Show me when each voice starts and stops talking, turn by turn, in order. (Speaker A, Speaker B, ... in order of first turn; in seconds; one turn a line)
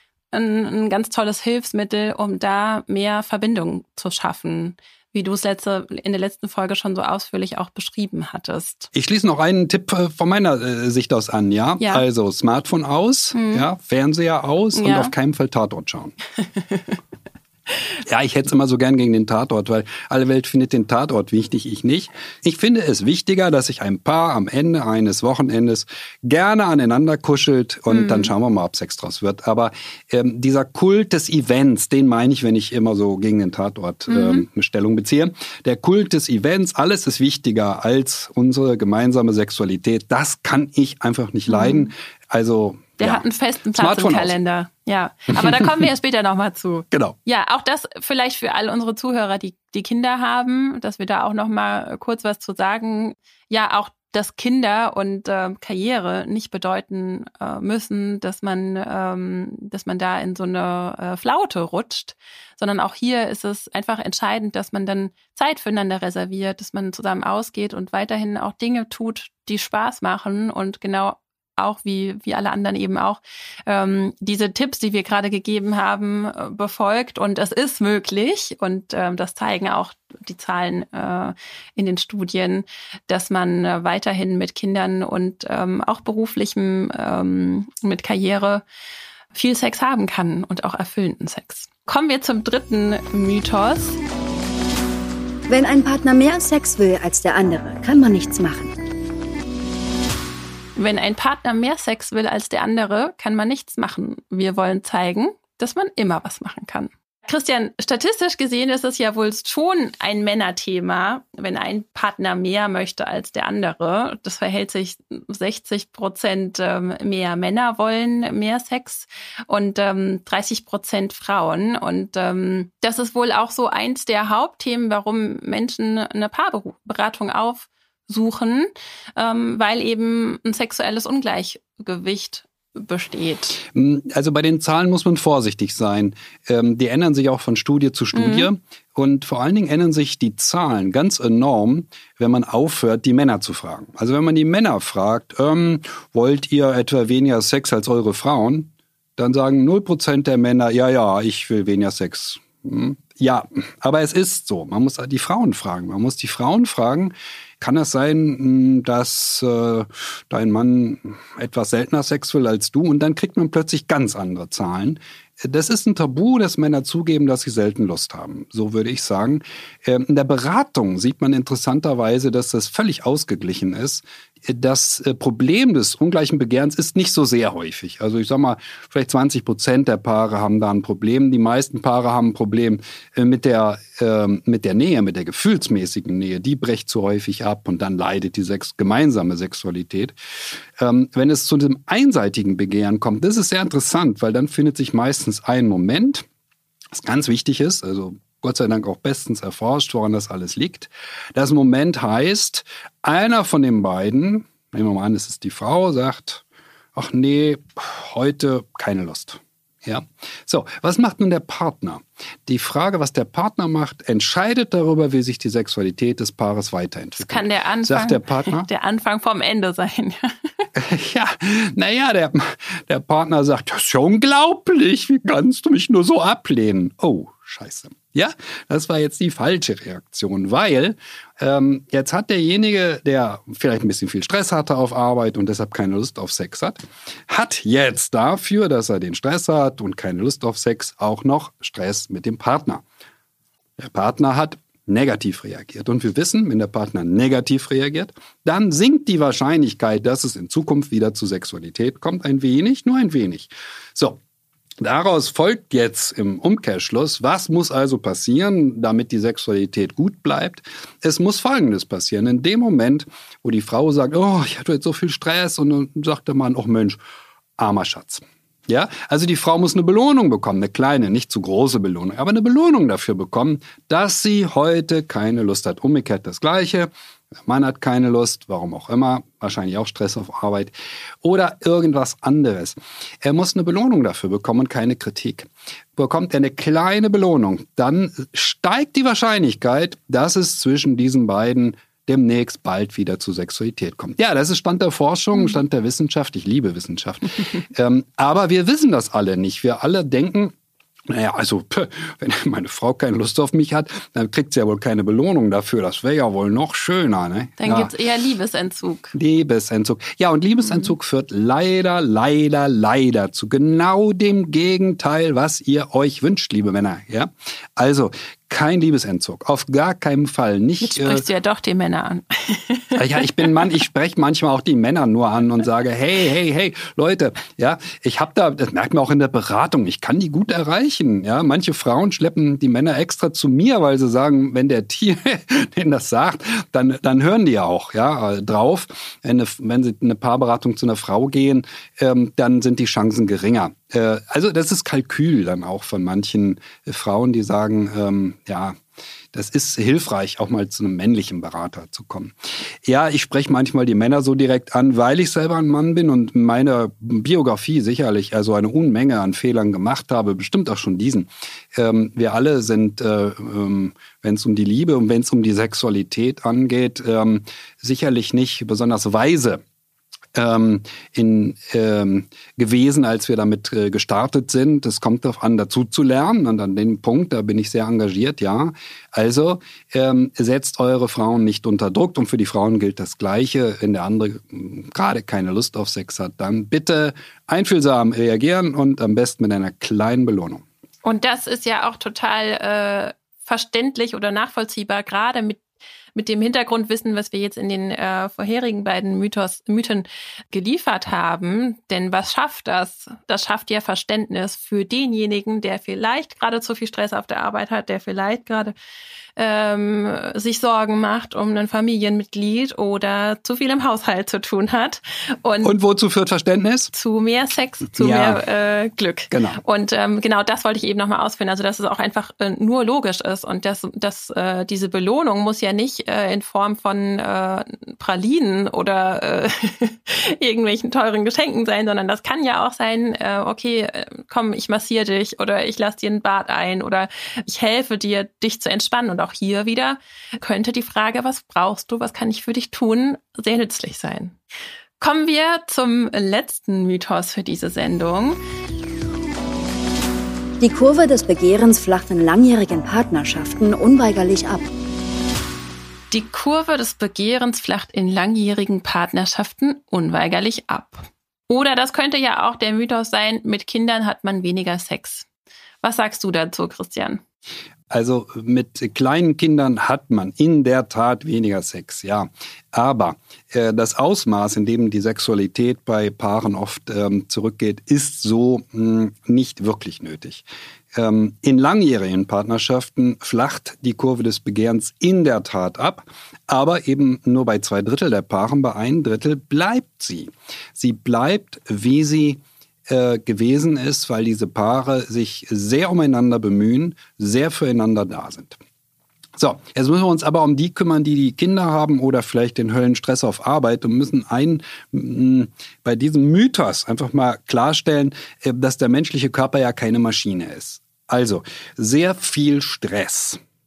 Speaker A: 0.3-8.9
Speaker B: 8.9-16.1
Speaker A: 13.3-13.7
Speaker A: 14.8-15.1
Speaker B: 18.1-43.2
Speaker A: 27.9-28.3
Speaker A: 34.1-34.5
Speaker A: 41.5-41.9
Speaker A: 43.0-88.6
Speaker B: 43.8-44.4
Speaker B: 45.4-45.7
Speaker A: 89.3-94.0
Speaker C: 95.5-98.7
Speaker A: 100.8-133.6
Speaker B: 133.7-196.3
Speaker A: 138.1-138.5
Speaker B: 196.9-206.4
Speaker B: 206.9-218.7
Speaker A: 217.2-220.7
Speaker B: 220.8-242.8
Speaker B: 243.8-254.2
Speaker B: 254.8-267.0
Speaker B: 267.6-276.9
Speaker B: 277.4-300.5
Speaker B: 301.1-307.9
Speaker A: 307.6-309.1
Speaker B: 309.1-321.3
Speaker A: 320.8-323.7
Speaker B: 322.9-348.8
Speaker B: 349.3-369.6
Speaker B: 370.3-390.6
Speaker A: 391.0-395.6
Speaker A: 396.1-408.8
Speaker A: 409.4-415.8
Speaker B: 415.6-416.9
Speaker A: 416.9-444.4
Speaker B: 418.0-418.4
Speaker B: 419.3-419.6
Speaker A: 445.0-448.4
Speaker C: 450.6-454.6
Speaker A: 456.1-465.3
Speaker A: 465.8-467.2
Speaker B: 467.9-498.6
Speaker B: 499.4-513.4